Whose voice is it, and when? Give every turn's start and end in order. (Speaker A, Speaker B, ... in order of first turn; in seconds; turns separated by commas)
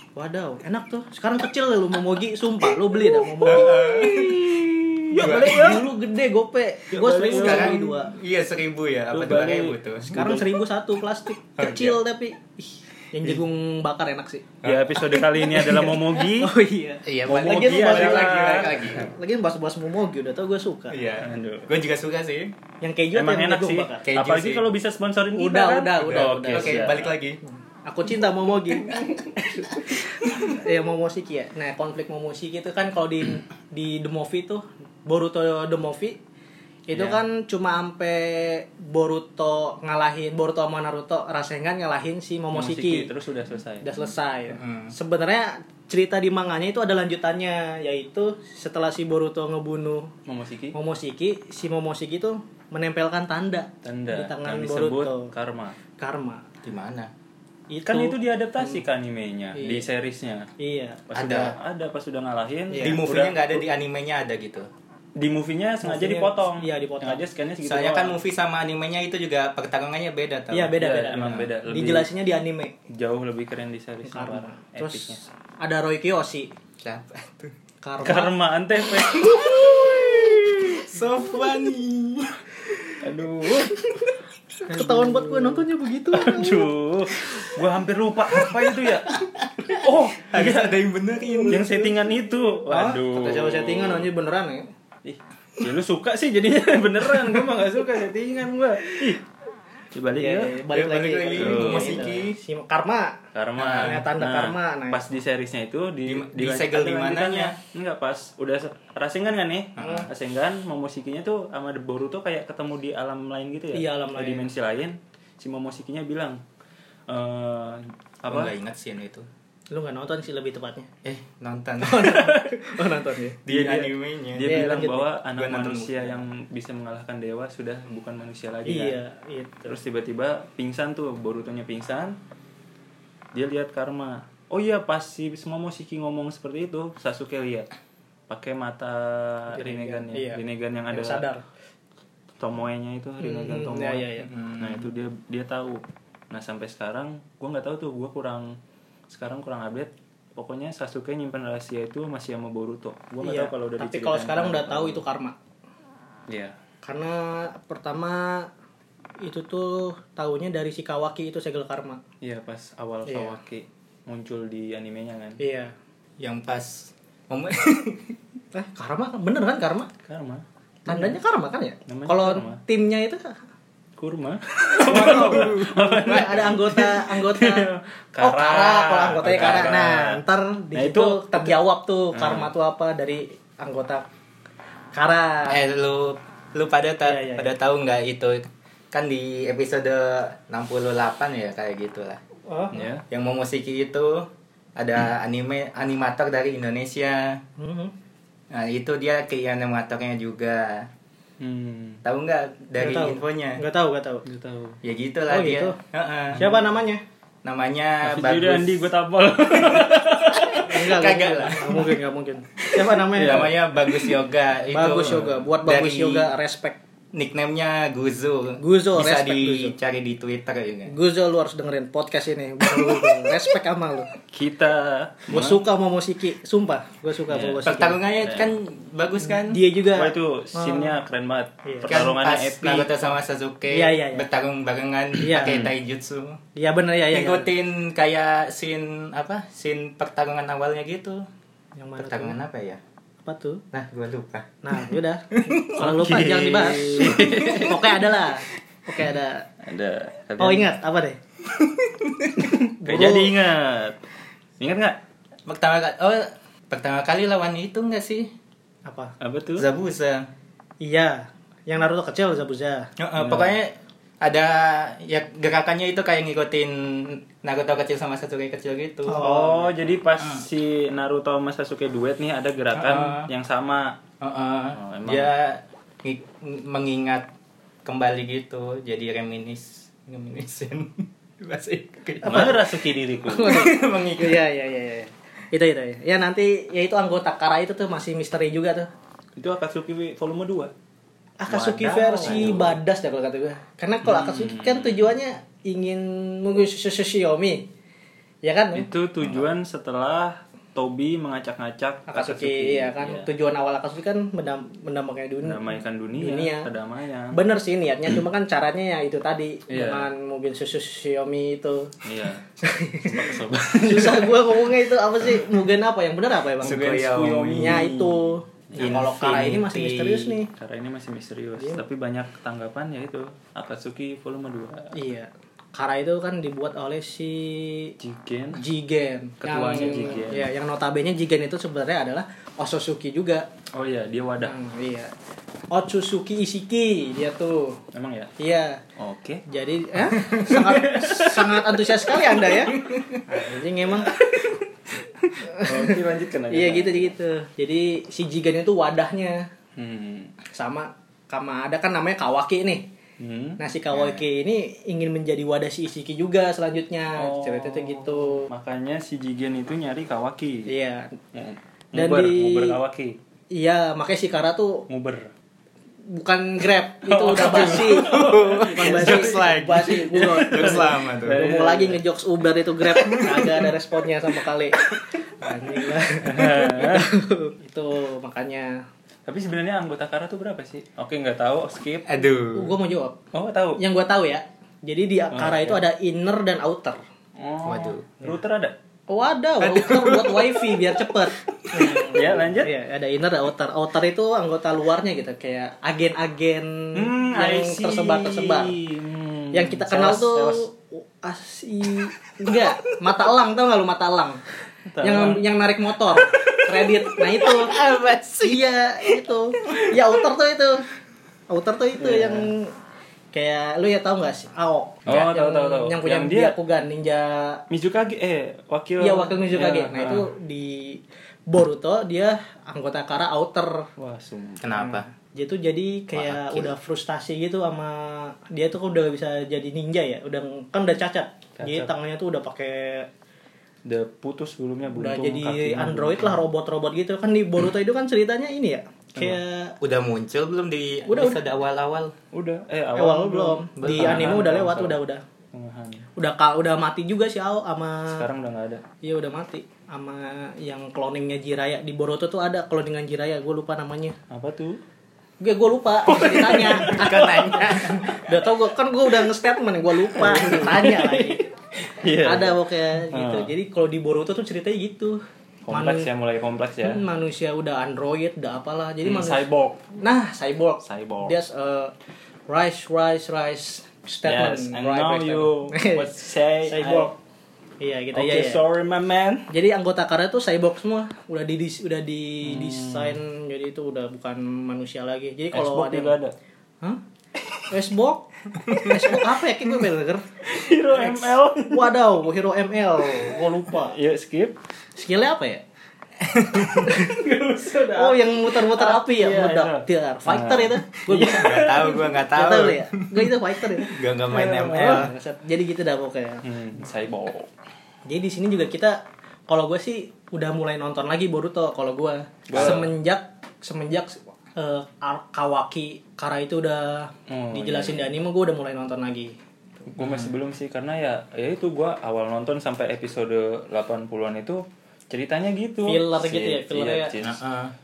Speaker A: 0.2-4.5, Speaker B: 3.2-5.8, Speaker C: 4.1-5.9, Speaker A: 5.1-8.1, Speaker C: 6.9-7.9, Speaker B: 7.3-10.4, Speaker C: 9.1-10.5, Speaker A: 10.1-14.5, Speaker B: 11.6-12.0, Speaker B: 14.6-15.1, Speaker C: 14.6-16.5, Speaker A: 15.1-21.0, Speaker B: 17.1-19.1, Speaker C: 17.3-19.1, Speaker B: 20.9-22.5, Speaker C: 21.2-21.7, Speaker A: 22.8-24.1, Speaker C: 23.1-27.2, Speaker B: 24.1-24.6, Speaker A: 25.4-26.9, Speaker B: 26.1-27.4, Speaker A: 27.4-36.2, Speaker A: 36.9-43.1, Speaker C: 36.9-37.2, Speaker C: 42.5-43.9, Speaker A: 43.8-50.1, Speaker B: 44.5-44.9, Speaker C: 50.3-50.8, Speaker A: 50.7-55.3, Speaker C: 53.8-55.8, Speaker A: 56.0-56.4, Speaker B: 56.6-57.1, Speaker A: 57.7-58.8, Speaker C: 57.9-60.5, Speaker A: 59.6-59.9, Speaker A: 60.6-61.0, Speaker C: 61.1-63.4, Speaker B: 61.1-61.6, Speaker A: 62.7-63.3, Speaker B: 62.8-64.7, Speaker C: 65.2-68.2, Speaker A: 65.8-67.2, Speaker B: 67.6-71.5, Speaker A: 70.5-72.8, Speaker C: 70.8-72.1, Speaker C: 72.9-75.2, Speaker A: 74.0-76.5, Speaker B: 76.8-77.5, Speaker A: 77.8-78.3, Speaker C: 78.0-80.7, Speaker B: 78.9-83.0, Speaker C: 83.0-83.8, Speaker A: 84.7-86.7, Speaker C: 84.7-89.2, Speaker B: 88.3-91.9, Speaker C: 89.7-90.8, Speaker A: 91.3-91.9, Speaker C: 91.5-94.1, Speaker A: 92.7-94.7, Speaker C: 95.0-99.2, Speaker C: 100.0-100.6, Speaker A: 100.2-103.2, Speaker B: 100.7-102.4, Speaker C: 101.3-102.1, Speaker C: 103.3-116.4, Speaker B: 103.6-104.0, Speaker A: 103.7-105.0, Speaker B: 106.1-107.5, Speaker B: 109.8-110.1, Speaker A: 113.7-114.5, Speaker C: 117.1-118.5, Speaker B: 118.3-119.3, Speaker A: 119.7-120.9, Speaker B: 121.0-122.3, Speaker A: 121.8-123.4, Speaker C: 122.2-122.5, Speaker B: 123.5-124.6, Speaker C: 123.5-129.0, Speaker A: 124.4-125.1, Speaker B: 125.4-126.2, Speaker A: 128.7-129.8, Speaker C: 129.7-132.2, Speaker C: 133.3-137.7, Speaker C: 138.3-141.2, Speaker A: 139.5-141.4, Speaker C: 142.4-148.6, Speaker A: 143.2-144.3, Speaker B: 144.2-144.9, Speaker C: 149.1-155.0, Speaker A: 153.2-155.3, Speaker C: 156.3-156.6, Speaker A: 156.8-158.5, Speaker A: 159.2-162.0, Speaker C: 162.2-165.4, Speaker A: 163.1-163.4, Speaker A: 165.4-165.7, Speaker B: 166.2-168.2, Speaker A: 168.5-169.9, Speaker C: 170.1-171.2, Speaker A: 170.9-173.4, Speaker C: 171.9-172.6, Speaker C: 174.0-180.2, Speaker B: 174.8-176.5, Speaker A: 174.8-177.7, Speaker A: 178.2-184.1, Speaker B: 179.3-179.8, Speaker C: 180.8-181.6, Speaker C: 182.1-182.5, Speaker A: 184.9-185.6, Speaker B: 185.5-192.2, Speaker A: 187.0-187.5, Speaker A: 192.5-192.9, Speaker C: 192.7-193.0, Speaker B: 193.1-197.4, Speaker A: 197.6-197.9, Speaker B: 198.5-200.9, Speaker C: 201.4-202.0, Speaker B: 202.1-203.6, Speaker A: 202.8-204.2, Speaker C: 204.3-204.8, Speaker B: 204.8-206.4, Speaker A: 205.3-205.8, Speaker A: 206.4-207.0, Speaker B: 207.4-208.9, Speaker C: 208.0-211.0, Speaker B: 209.5-211.9, Speaker A: 210.6-213.6, Speaker C: 212.7-214.1, Speaker B: 213.1-216.3, Speaker A: 214.7-216.8, Speaker B: 217.1-220.9, Speaker A: 218.6-219.8, Speaker A: 220.9-224.1, Speaker B: 222.7-223.4, Speaker C: 224.3-225.6, Speaker A: 225.3-228.0, Speaker C: 227.3-228.5, Speaker B: 227.6-229.6, Speaker A: 229.3-231.0, Speaker C: 229.9-233.0, Speaker A: 231.7-231.9, Speaker B: 231.9-236.4, Speaker A: 233.7-234.3, Speaker A: 235.2-235.6, Speaker C: 235.4-235.7, Speaker A: 236.6-237.5, Speaker B: 237.1-241.2, Speaker A: 241.8-242.4, Speaker B: 242.0-242.8, Speaker A: 243.3-243.6, Speaker B: 243.7-245.7, Speaker A: 244.6-249.5, Speaker C: 245.8-248.0, Speaker B: 246.8-247.7, Speaker C: 249.6-250.7, Speaker A: 250.4-251.2, Speaker B: 251.5-252.5, Speaker C: 252.5-254.0, Speaker A: 252.8-253.3, Speaker C: 254.6-255.0, Speaker B: 255.5-258.3, Speaker A: 258.9-259.1, Speaker C: 259.2-259.7, Speaker B: 259.6-260.3, Speaker A: 260.8-262.9, Speaker B: 263.0-269.5, Speaker C: 263.2-263.6, Speaker A: 269.1-269.7, Speaker C: 269.2-274.0, Speaker B: 270.2-270.4, Speaker B: 272.7-273.3, Speaker B: 274.2-277.3, Speaker C: 274.8-275.3, Speaker B: 277.9-282.6, Speaker A: 282.2-282.6, Speaker C: 282.2-283.7, Speaker A: 283.3-288.9, Speaker B: 283.4-284.4, Speaker C: 289.4-290.7, Speaker A: 291.4-297.7, Speaker C: 291.5-292.8, Speaker B: 292.2-292.7, Speaker C: 294.0-295.1, Speaker A: 298.4-298.9, Speaker C: 298.7-303.3, Speaker A: 302.1-306.7, Speaker C: 305.4-307.4, Speaker A: 307.3-311.9, Speaker C: 309.7-310.1, Speaker C: 312.1-312.5, Speaker A: 312.6-317.0, Speaker C: 313.0-314.4, Speaker B: 316.6-317.9, Speaker C: 316.6-319.1, Speaker A: 317.6-320.5, Speaker B: 318.8-320.4, Speaker C: 320.5-324.9, Speaker A: 321.6-321.8, Speaker A: 324.9-327.9, Speaker C: 328.0-328.6, Speaker A: 328.5-333.5, Speaker C: 329.4-330.5, Speaker C: 333.7-334.6, Speaker A: 334.4-335.1, Speaker A: 335.7-337.8, Speaker C: 337.9-338.3, Speaker A: 338.4-338.8, Speaker C: 339.0-339.4, Speaker A: 339.5-344.2, Speaker C: 340.5-342.5, Speaker B: 342.7-343.2, Speaker C: 344.1-344.6, Speaker C: 345.3-347.2, Speaker A: 345.4-346.0, Speaker A: 346.5-349.5, Speaker C: 349.8-350.3, Speaker A: 350.6-352.9, Speaker C: 353.2-353.6, Speaker A: 353.6-358.5, Speaker B: 353.9-354.2, Speaker C: 357.2-360.7, Speaker A: 360.7-361.2, Speaker C: 361.3-363.2, Speaker A: 361.9-362.8, Speaker A: 363.5-364.9, Speaker C: 364.9-365.3, Speaker A: 366.1-374.8, Speaker C: 367.1-372.0, Speaker B: 367.3-371.4, Speaker B: 372.9-373.7, Speaker A: 375.4-378.8, Speaker C: 376.2-377.1, Speaker C: 379.3-382.2, Speaker B: 382.1-382.8, Speaker A: 382.5-383.2, Speaker C: 383.3-383.8, Speaker A: 383.8-387.0, Speaker C: 385.3-385.8, Speaker C: 387.4-388.8, Speaker B: 387.6-388.1, Speaker A: 389.1-398.8, Speaker B: 389.6-392.1, Speaker C: 392.0-392.7, Speaker C: 396.9-400.6, Speaker A: 399.5-404.4, Speaker C: 404.9-405.4, Speaker A: 405.0-407.7, Speaker B: 406.3-410.1, Speaker A: 408.4-410.9, Speaker A: 411.5-412.8, Speaker C: 412.0-412.5, Speaker A: 413.3-417.6, Speaker C: 415.1-416.6, Speaker C: 417.7-420.3, Speaker A: 419.0-423.9, Speaker C: 424.0-424.7, Speaker B: 424.6-425.1, Speaker A: 424.7-433.1, Speaker B: 426.1-426.7, Speaker C: 431.6-431.9, Speaker C: 433.9-436.4, Speaker A: 435.0-439.8, Speaker B: 439.8-442.1, Speaker A: 441.1-441.4, Speaker C: 442.3-445.0, Speaker A: 443.0-445.2, Speaker B: 443.8-444.5, Speaker C: 445.5-446.1, Speaker A: 446.2-448.3, Speaker C: 448.1-448.8, Speaker A: 449.0-454.2, Speaker C: 454.3-454.8, Speaker A: 455.4-461.4, Speaker C: 456.1-457.2, Speaker B: 456.9-458.2, Speaker C: 460.1-463.5, Speaker A: 462.2-465.2, Speaker C: 465.7-467.0, Speaker A: 465.7-466.1, Speaker A: 466.8-469.5, Speaker C: 469.0-469.9, Speaker A: 470.0-471.9, Speaker C: 470.8-471.4, Speaker A: 472.5-476.1, Speaker C: 474.2-477.1, Speaker A: 476.7-477.1, Speaker A: 477.8-478.6, Speaker C: 478.1-479.5, Speaker A: 479.5-486.1, Speaker C: 482.4-483.2, Speaker C: 485.5-486.3, Speaker A: 487.7-494.0, Speaker B: 488.6-488.9, Speaker C: 490.4-492.0, Speaker C: 493.2-494.6, Speaker A: 495.0-495.6, Speaker B: 496.2-497.0, Speaker A: 496.9-497.2, Speaker C: 496.9-502.1, Speaker A: 497.9-501.8, Speaker B: 501.2-505.1, Speaker A: 502.3-504.0, Speaker C: 504.3-505.1, Speaker A: 504.7-506.5, Speaker C: 506.4-507.5, Speaker A: 508.1-519.4, Speaker C: 512.5-512.9, Speaker B: 512.5-512.9, Speaker C: 517.3-518.2, Speaker C: 519.9-527.4, Speaker B: 520.0-520.3, Speaker A: 525.9-527.1, Speaker B: 527.2-527.7